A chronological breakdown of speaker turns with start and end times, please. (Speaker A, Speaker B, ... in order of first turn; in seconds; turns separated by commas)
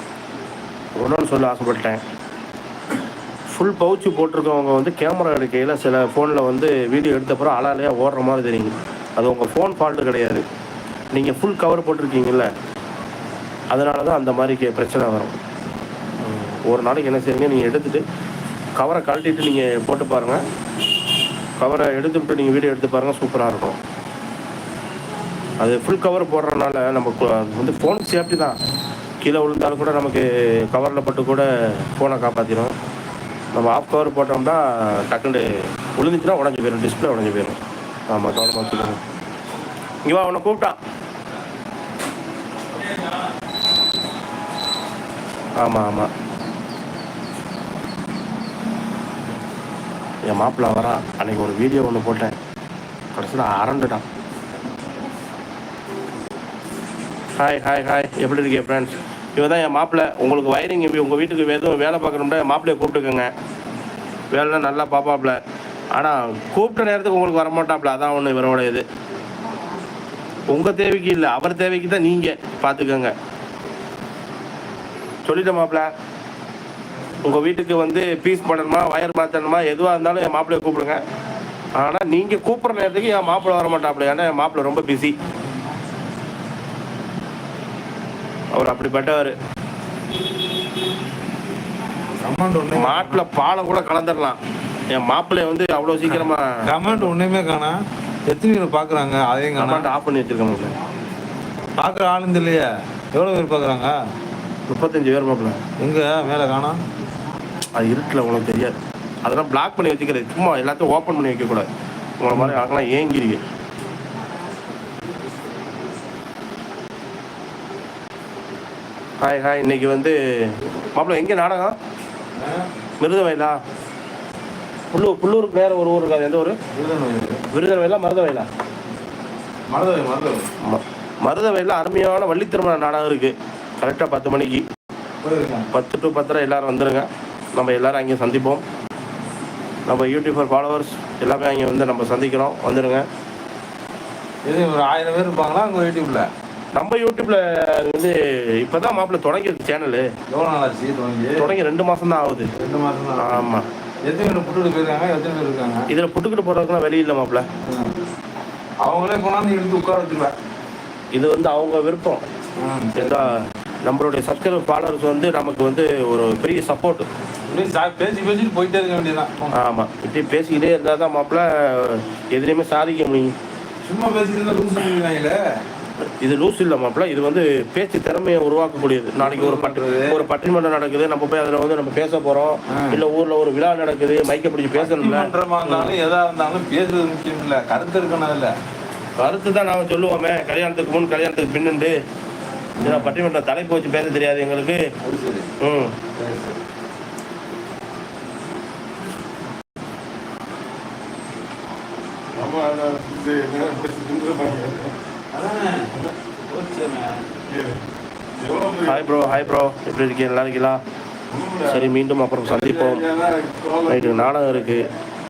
Speaker A: 1.0-2.0, Speaker A: 3.5-10.4, Speaker A: 11.1-12.5, Speaker A: 13.7-15.4, Speaker A: 16.2-18.0, Speaker A: 18.8-20.4, Speaker A: 21.6-23.8, Speaker A: 25.6-28.6, Speaker A: 29.2-32.7, Speaker A: 33.5-37.6, Speaker A: 38.1-39.0, Speaker A: 40.0-40.8, Speaker A: 45.6-46.1, Speaker A: 50.3-52.4, Speaker A: 53.1-54.0, Speaker A: 57.4-63.3, Speaker A: 64.3-65.4, Speaker A: 66.0-68.8, Speaker A: 70.5-73.1, Speaker A: 75.2-75.9, Speaker A: 77.2-81.0, Speaker A: 81.8-85.1, Speaker A: 88.5-89.3, Speaker B: 92.2-93.2, Speaker A: 92.7-94.4, Speaker A: 94.9-97.1, Speaker B: 96.0-97.8, Speaker B: 98.3-99.9, Speaker A: 99.6-100.7, Speaker B: 101.8-103.9, Speaker A: 104.7-105.6, Speaker B: 105.8-106.8, Speaker A: 107.8-111.7, Speaker A: 112.2-113.4, Speaker B: 112.3-112.6, Speaker A: 119.2-121.8, Speaker B: 122.4-122.7, Speaker A: 123.0-123.6, Speaker A: 124.9-126.6, Speaker B: 126.8-127.4, Speaker A: 127.5-128.5, Speaker B: 129.7-130.4, Speaker A: 130.6-134.6, Speaker B: 135.2-135.7, Speaker A: 135.7-138.6, Speaker A: 139.9-143.1, Speaker B: 144.5-146.3, Speaker A: 146.7-150.1, Speaker B: 150.3-151.5, Speaker A: 151.4-152.5, Speaker B: 152.6-153.5, Speaker A: 153.2-153.7, Speaker B: 154.1-155.8, Speaker A: 155.9-157.4, Speaker B: 157.7-158.0, Speaker B: 158.8-160.3, Speaker A: 161.1-162.2, Speaker B: 162.6-163.3, Speaker A: 163.0-167.1, Speaker B: 167.5-169.6, Speaker A: 169.5-173.3, Speaker B: 173.8-175.4, Speaker A: 176.2-186.0, Speaker B: 179.2-180.2, Speaker B: 182.7-183.0, Speaker B: 184.8-188.5, Speaker A: 189.2-191.9, Speaker B: 192.8-193.2, Speaker A: 192.8-194.8, Speaker B: 195.0-195.5, Speaker A: 195.6-196.0, Speaker B: 196.2-196.6, Speaker B: 202.4-207.6, Speaker B: 208.4-208.8, Speaker A: 208.8-210.8, Speaker A: 211.6-213.0, Speaker B: 212.6-213.8, Speaker A: 213.8-214.9